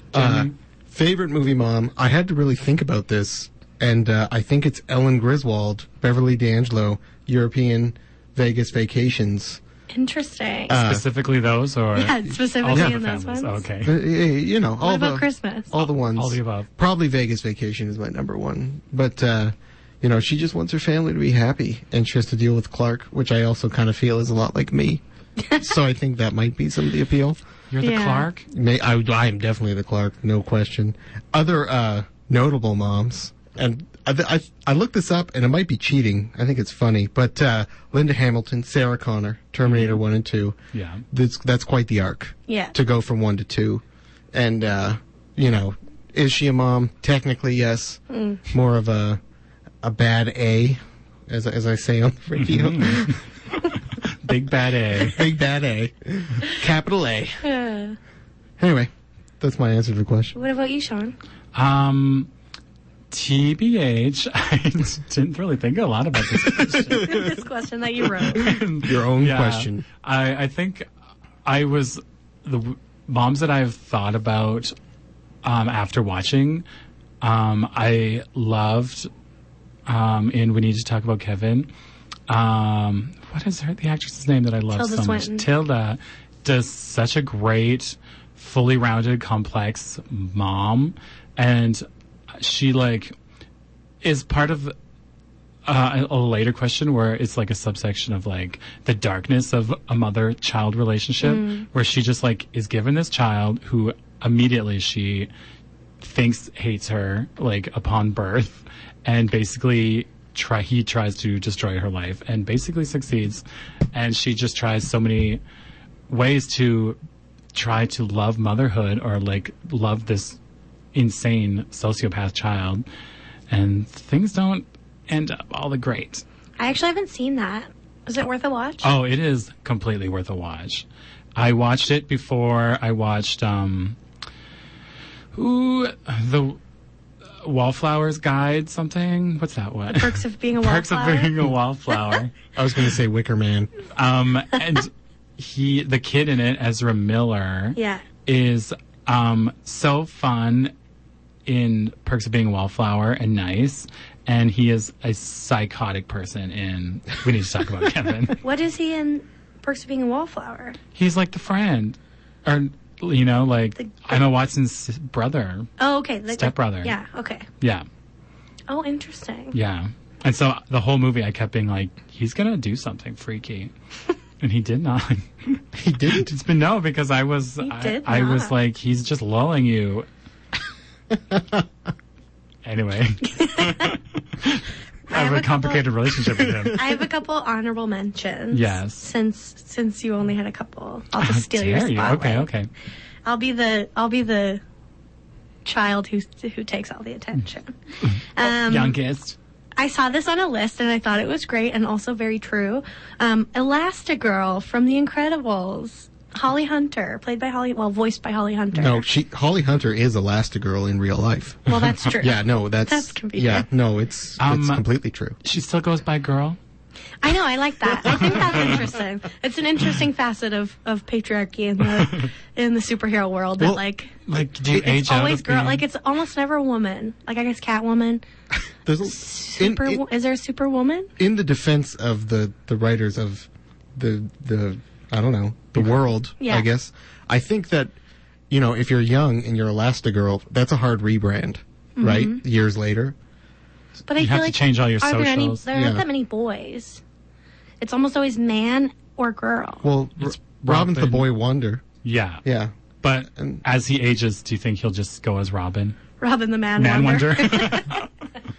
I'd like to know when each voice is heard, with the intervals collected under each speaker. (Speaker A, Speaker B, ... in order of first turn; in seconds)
Speaker A: 0.1-0.5, 10.7-14.0, 15.8-16.7, 27.7-28.5, 39.6-40.0, 40.7-41.0, 52.4-53.2, 54.1-55.3, 61.5-62.3, 63.1-67.1, 68.3-70.9, 71.4-74.7, 75.4-76.6, 77.2-79.1, 79.8-81.7, 82.3-91.8, 92.4-93.1, 94.0-94.7, 95.7-105.3, 106.0-115.4, 116.1-117.0, 117.5-120.4, 120.9-122.8, 123.5-126.2, 128.8-133.9, 135.3-136.6, 137.4-142.3, 143.9-150.7, 151.4-158.4, 160.9-165.7, 166.3-166.9, 167.6-167.8, 169.5-173.7, 174.4-175.6, 176.2-180.1, 182.6-186.8, 188.5-189.0, 191.2-192.7, 198.1-199.3, 214.4-214.8, 215.4-216.6, 224.2-225.8, 244.2-245.6, 250.2-251.2, 252.0-252.4, 253.0-256.0, 256.8-258.1
Speaker B: 0.1-9.6, 10.7-11.1, 13.8-27.4, 28.5-40.6, 41.1-49.2, 49.8-53.2, 55.0-57.4, 58.6-60.3, 68.8-69.8, 142.5-143.7, 175.7-176.3, 181.3-181.6, 208.7-215.4, 228.8-230.0, 231.2-237.9, 238.5-243.1, 245.7-246.0, 249.8-251.8, 252.4-252.7, 253.3-253.6
Speaker C: 9.9-10.8, 11.9-13.6, 14.8-15.7, 27.8-28.3, 42.5-42.7, 48.1-48.4, 57.4-58.0, 60.3-61.1, 66.9-68.5, 84.7-85.5, 101.2-101.7, 126.6-128.9, 139.9-141.3, 147.7-148.0, 158.4-160.8, 163.8-164.1, 165.8-167.4, 168.7-169.6, 177.6-178.5, 183.4-183.9, 185.1-185.8, 186.7-192.5, 193.2-194.6, 195.6-197.7, 198.3-199.0, 199.8-209.1, 211.7-213.7, 217.2-224.2, 224.7-228.2, 229.0-231.1, 236.4-236.7, 242.0-242.4, 244.1-247.0, 247.8-249.8, 256.2-258.0